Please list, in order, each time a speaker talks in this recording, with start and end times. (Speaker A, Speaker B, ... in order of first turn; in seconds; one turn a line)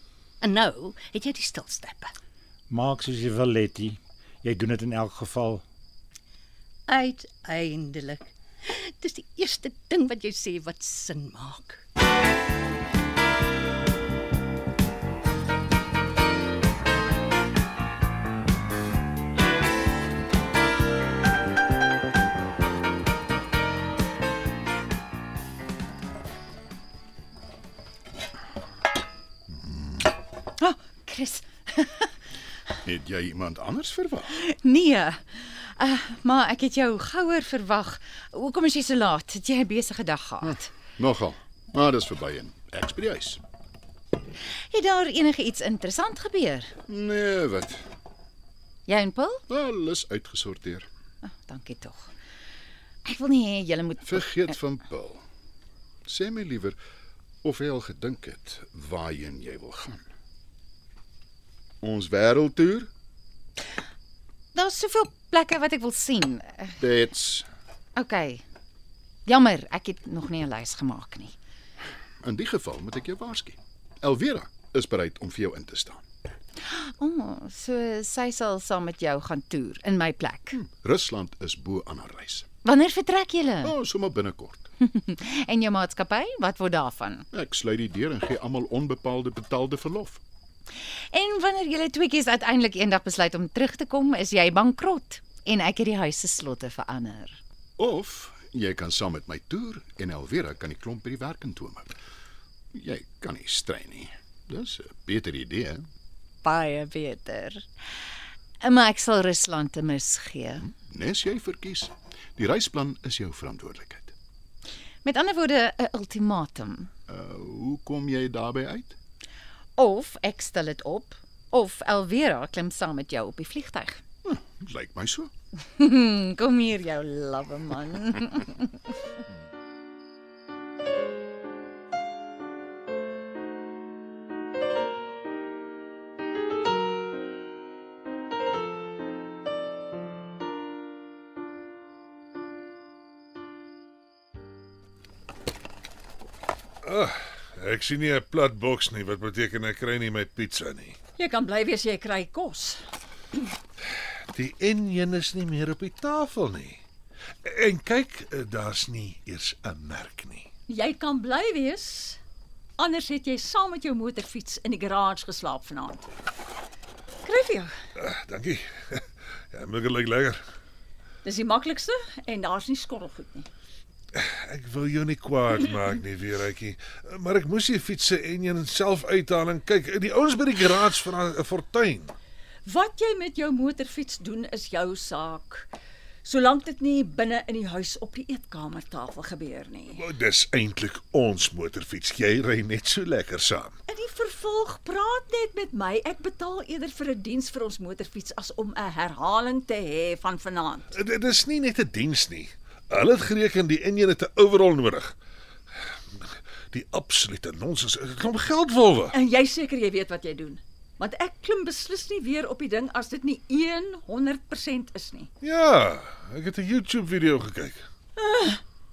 Speaker A: 0.4-2.1
Speaker B: 2.7-5.6
Speaker A: 6.9-11.8
Speaker C: 29.5-29.8
Speaker D: 30.6-32.1
Speaker C: 32.9-34.4
Speaker D: 34.4-40.7
Speaker C: 40.4-43.4
Speaker D: 44.7-46.7
Speaker C: 46.9-47.8
Speaker D: 48.9-49.4
Speaker C: 49.5-50.9
Speaker D: 51.2-52.1
Speaker D: 53.0-54.4
Speaker C: 54.0-55.2
Speaker C: 56.0-56.8
Speaker C: 57.4-60.0
Speaker C: 61.8-62.9
Speaker D: 64.5-66.8
Speaker C: 66.8-67.5
Speaker D: 68.0-68.4
Speaker D: 69.3-71.3
Speaker C: 72.2-76.1
Speaker D: 76.7-80.6
Speaker C: 80.5-82.5
Speaker D: 82.6-83.7
Speaker C: 83.6-84.7
Speaker D: 84.8-87.3
Speaker C: 87.3-90.2
Speaker D: 91.1-97.4
Speaker C: 97.8-101.9
Speaker C: 102.7-105.9
Speaker D: 106.4-107.7
Speaker D: 108.6-110.6
Speaker C: 110.6-114.2
Speaker D: 115.0-116.9
Speaker C: 117.1-119.0
Speaker D: 119.8-124.0
Speaker C: 124.2-125.3
Speaker D: 125.8-128.8
Speaker E: 146.8-151.0
Speaker F: 151.2-152.8
Speaker E: 154.3-156.8
Speaker E: 157.4-160.5
Speaker F: 160.7-162.2
Speaker F: 162.8-166.1
Speaker F: 167.2-167.7
Speaker E: 168.0-170.4
Speaker F: 171.2-173.5
Speaker E: 174.2-182.2
Speaker F: 182.7-185.7
Speaker F: 186.2-190.0
Speaker E: 189.9-193.8
Speaker F: 193.9-200.9
Speaker E: 200.9-205.2
Speaker E: 206.2-209.2
Speaker F: 209.1-215.3
Speaker E: 215.4-217.8
Speaker F: 218.2-218.6